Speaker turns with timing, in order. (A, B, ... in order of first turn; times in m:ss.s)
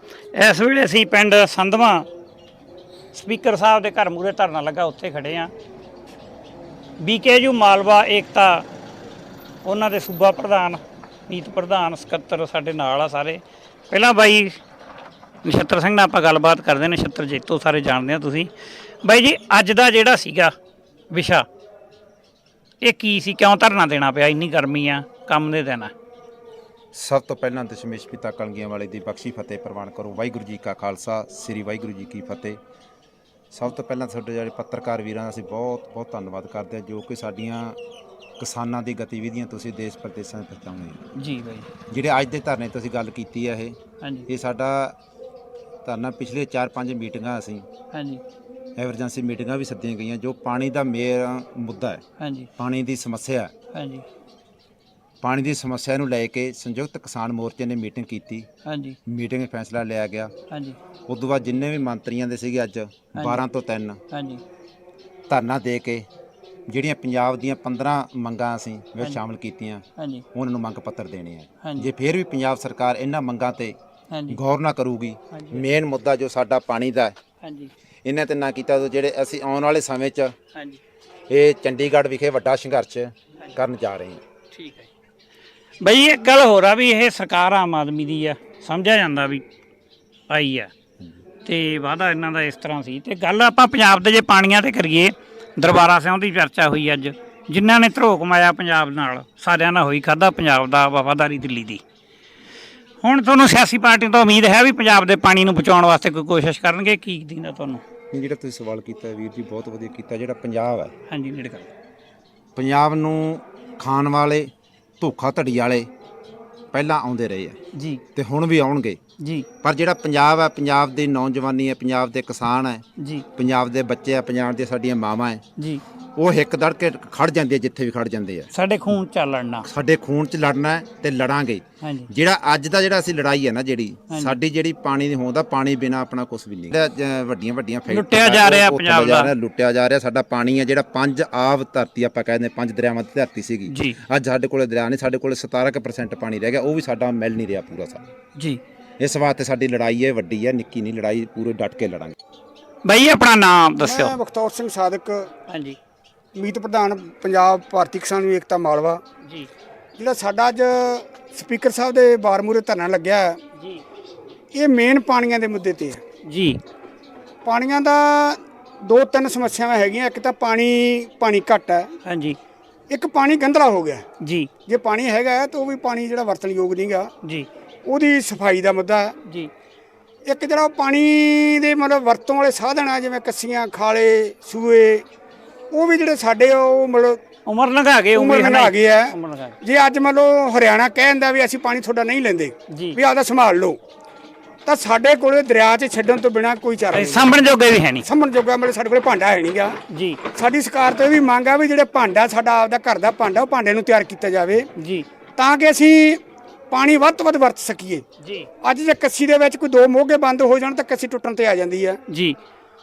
0:00.3-0:02.0 A
0:03.1-0:05.5 A
0:07.0-0:08.6 A
0:09.6-0:14.6 A
0:15.4-0:18.5 A
0:19.0-0:20.5 A
0:21.1-0:21.4 A
0:22.8-0:25.9 A
0:26.9-0:32.6 B
0:33.5-0:37.8 B
0:38.4-0:41.0 B
0:41.1-0:41.7 A
0:41.9-0:43.8 B
0:44.0-0:44.3 A
0:44.3-0:44.9 B
0:45.8-0:47.6 B
0:47.9-0:48.2 A
0:48.8-0:52.0 B
0:52.2-0:52.5 A
0:52.6-0:53.5 B
0:53.7-0:54.0 A
0:55.2-0:58.5 B
0:58.6-0:59.0 A
0:59.1-1:00.3 B
1:00.5-1:00.8 A
1:01.1-1:04.0 B
1:03.2-1:03.4 A
1:04.1-1:04.4 A
1:05.3-1:06.1 B
1:06.7-1:13.8 B
1:10.0-1:10.2 A
1:11.6-1:11.9 A
1:14.1-1:14.4 A
1:14.3-1:17.1 B
1:15.3-1:15.6 A
1:17.4-1:17.7 A
1:18.0-1:20.3 B
1:21.3-1:24.2 B
1:24.5-1:24.9 A
1:25.8-1:29.4 A
1:30.3-1:30.7 A
1:31.4-1:41.8 A
1:43.0-1:47.8 A
1:48.1-1:50.9 B
1:51.1-1:51.7 A
1:52.6-1:55.9 B
1:56.7-1:57.6 B
1:57.7-1:58.0 A
1:58.1-1:59.0 B
1:59.2-1:59.5 A
1:59.6-2:02.8 B
2:03.0-2:03.2 A
2:03.4-2:05.4 B
2:05.6-2:05.8 A
2:06.2-2:08.5 B
2:08.5-2:09.7 A
2:09.6-2:28.1 B
2:11.8-2:12.1 A
2:14.1-2:14.3 A
2:17.9-2:19.3 A
2:23.7-2:24.0 A
2:29.0-2:32.2 B
2:32.8-2:34.1 A
2:33.8-2:35.3 C
2:35.5-2:35.8 A
2:36.3-2:39.0 C
2:40.0-2:43.4 C
2:44.5-2:46.0 C
2:46.2-2:46.6 A
2:47.4-2:51.9 C
2:52.0-2:52.4 A
2:52.9-2:54.0 C
2:54.2-2:54.5 A
2:54.7-2:57.1 C
2:57.8-2:59.2 C
2:59.2-2:59.5 A
3:00.2-3:05.0 C
3:05.7-3:07.2 C
3:07.4-3:09.5 A
3:08.1-3:13.8 C
3:12.7-3:13.0 A
3:14.6-3:17.2 C
3:16.9-3:18.0 A
3:18.0-3:19.8 C
3:19.9-3:20.2 A
3:20.3-3:24.7 C
3:24.8-3:25.1 A
3:25.4-3:28.0 C
3:28.2-3:28.5 A
3:28.6-3:32.0 C
3:32.1-3:32.4 A